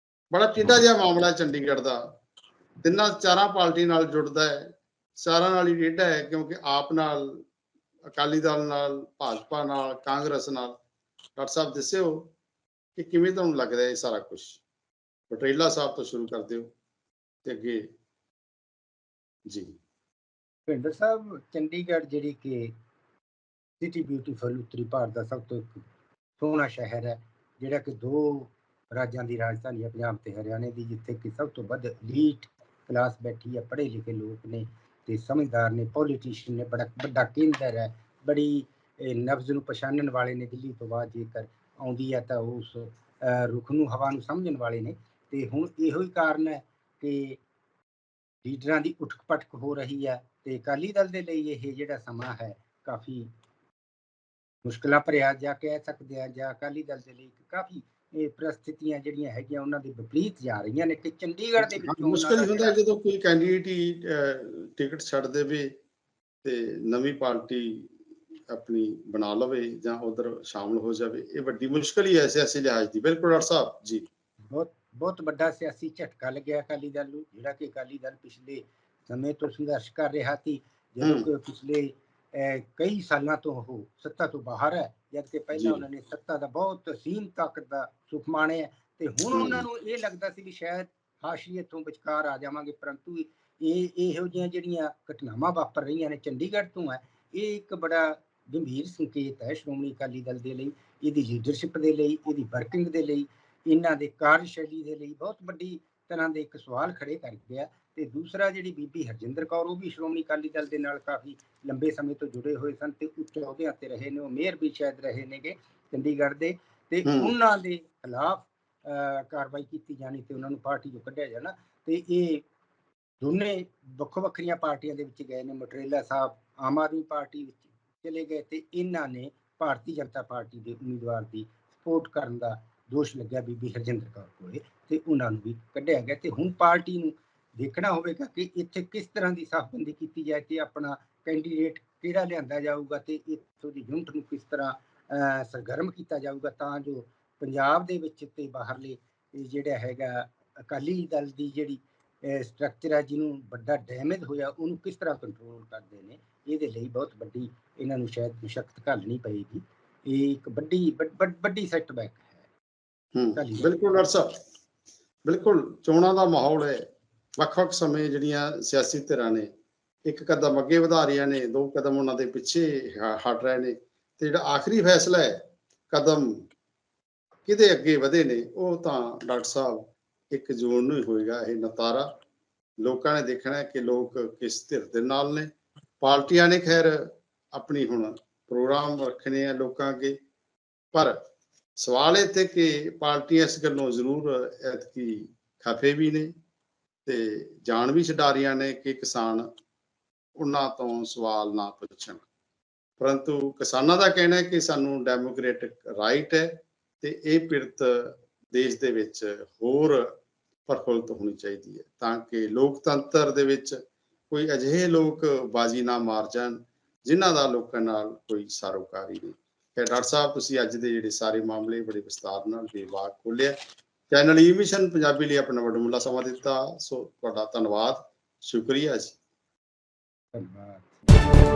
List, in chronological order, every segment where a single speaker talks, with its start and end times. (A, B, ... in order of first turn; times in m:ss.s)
0:00.3-0:02.0 A
0:02.8-0:07.4 A
0:08.1-0:10.8 A
0:11.4-0:12.3 A
0:13.0-0:14.6 A
0:15.3-0:16.7 A
0:17.4-0:17.9 A
0:19.5-0:19.8 A
0:20.7-0:22.7 B
0:23.8-0:25.8 B
0:26.4-0:47.4 B
0:48.4-0:53.3 B
0:54.6-1:02.8 B
1:01.6-1:05.7 A
1:06.4-1:07.9 A
1:08.5-1:14.1 A
1:14.5-2:02.4 B
1:21.0-1:21.3 A
1:25.5-1:25.8 A
1:29.3-1:29.6 A
1:57.0-1:57.3 A
2:03.2-2:42.4 B
2:43.2-2:44.4 A
2:43.4-2:44.1 B
2:45.2-2:46.8 A
2:47.4-2:49.5 A
2:50.0-2:56.4 A
2:57.5-3:02.1 A
3:02.8-3:10.2 A
3:10.9-3:11.2 A
3:11.8-3:16.3 A
3:17.1-3:19.5 A
3:20.4-3:22.2 A
3:23.0-3:30.1 A
3:30.7-3:33.8 A
3:34.3-3:43.6 A
3:44.1-3:49.2 A
3:50.3-3:51.0 B